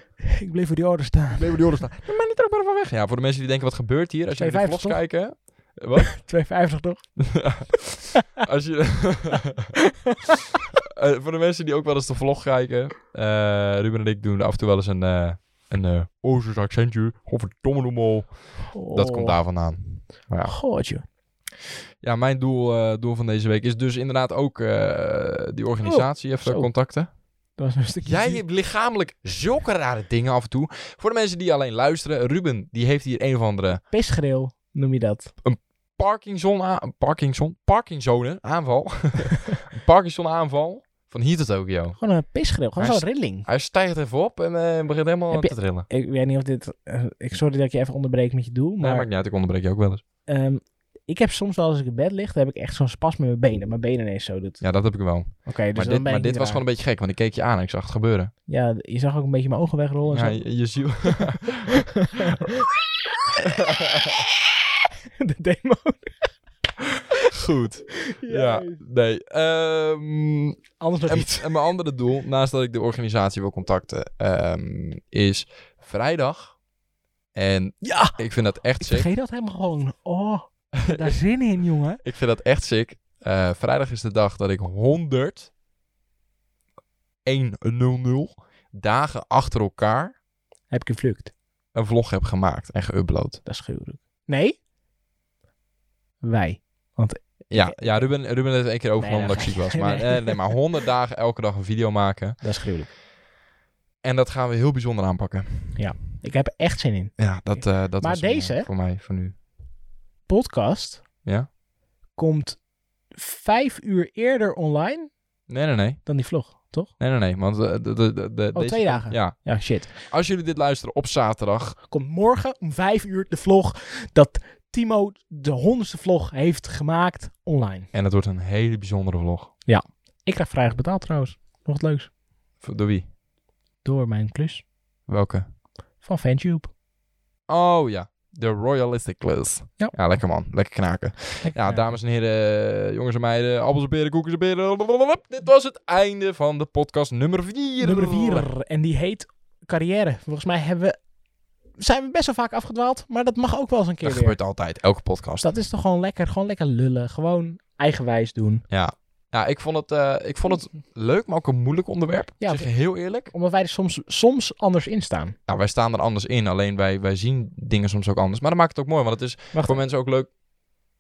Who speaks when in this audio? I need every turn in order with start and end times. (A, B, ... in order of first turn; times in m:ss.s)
0:00.3-0:01.6 A
0:01.4-0:06.3 B
0:04.4-0:05.0 A
0:06.1-0:07.7 A
0:07.3-0:09.8 B
0:10.9-0:20.6 B
0:18.7-0:19.4 A
0:20.4-0:21.0 A
0:22.0-0:27.1 B
0:25.8-0:26.7 A
0:27.6-0:28.4 A
0:28.0-0:33.8 B
0:33.9-0:35.3 A
0:35.4-0:42.0 B
0:42.0-0:43.5 A
0:42.8-0:45.9 B
0:45.3-0:49.1 A
0:48.8-0:50.0 B
0:50.3-0:54.6 A
0:54.6-0:58.3 B
0:55.4-0:56.6 A
0:58.5-1:01.3 A
1:00.1-1:02.3 B
1:02.1-1:02.7 A
1:03.5-1:04.2 B
1:05.2-1:06.3 A
1:07.3-1:16.6 B
1:08.0-1:08.8 A
1:10.8-1:11.6 A
1:17.3-1:19.1 B
1:17.8-1:18.2 A
1:18.8-1:22.0 A
1:20.8-1:21.2 B
1:22.0-1:25.5 B
1:27.2-1:30.2 B
1:30.7-1:31.3 A
1:31.7-1:33.4 B
1:33.4-1:34.6 A
1:36.2-1:38.1 A
1:37.5-1:42.4 B
1:39.0-1:40.5 A
1:42.4-1:42.9 A
1:44.0-1:45.8 B
1:45.8-1:48.7 A
1:47.2-1:49.4 B
1:50.3-1:51.1 A
1:52.1-1:55.1 A
1:55.5-1:56.1 B
1:56.0-1:56.9 A
1:57.0-2:01.8 B
1:58.5-2:00.0 A
2:01.9-2:07.9 A
2:07.9-2:09.5 B
2:09.7-2:12.1 A
2:12.6-2:13.1 B
2:13.8-2:14.6 A
2:15.1-2:15.4 B
2:16.0-2:16.7 A
2:17.5-2:28.5 B
2:21.4-2:21.9 A
2:27.8-2:31.0 A
2:31.8-2:34.4 A
2:34.0-2:35.5 B
2:35.4-2:38.6 A
2:38.7-2:43.3 B
2:42.4-2:45.4 A
2:45.5-2:50.3 B
2:49.5-2:49.8 A